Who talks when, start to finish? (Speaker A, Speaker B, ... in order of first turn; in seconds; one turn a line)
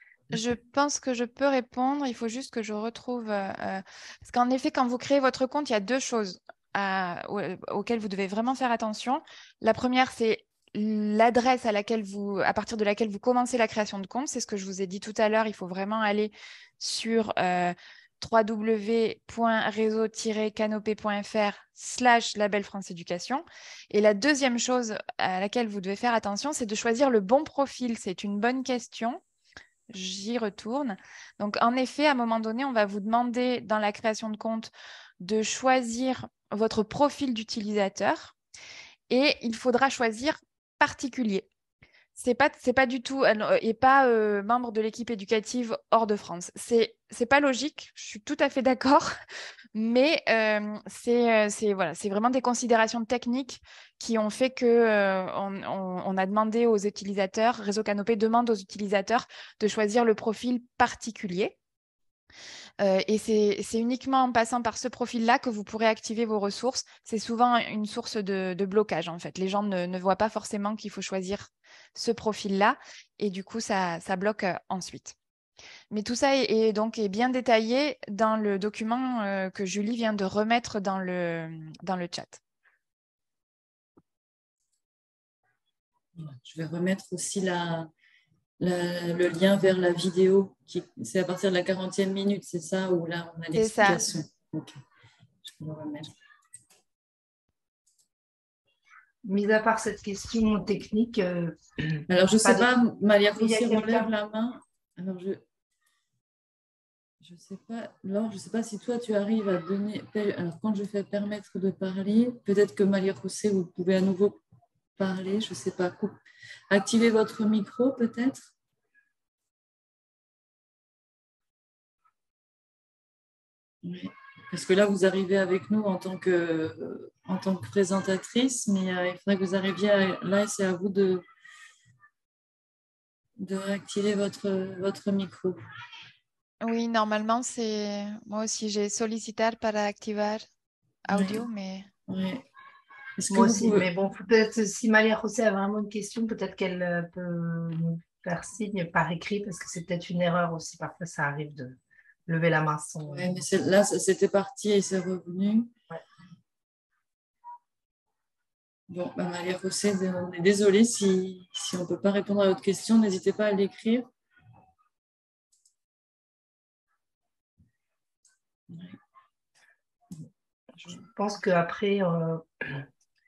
Speaker A: 0.3-29.2
Speaker A: 29.9-38.4
Speaker A: 39.1-41.5
Speaker A: 42.1-49.1
Speaker A: 49.7-61.5
Speaker A: 62.8-75.2
Speaker A: 75.9-82.4
Speaker B: 86.2-87.9
Speaker B: 88.6-94.8
Speaker A: 93.5-94.1
Speaker B: 95.4-96.1
Speaker C: 99.2-102.7
Speaker B: 102.1-105.4
Speaker C: 103.3-104.1
Speaker B: 107.2-114.4
Speaker B: 115.0-118.5
Speaker B: 123.8-131.2
Speaker B: 133.4-135.6
Speaker A: 136.6-140.4
Speaker A: 141.1-141.9
Speaker B: 141.1-141.4
Speaker B: 142.1-142.4
Speaker B: 143.2-143.9
Speaker C: 143.3-153.3
Speaker B: 153.0-155.7
Speaker B: 158.9-164.1
Speaker B: 168.7-169.0
Speaker C: 170.8-172.9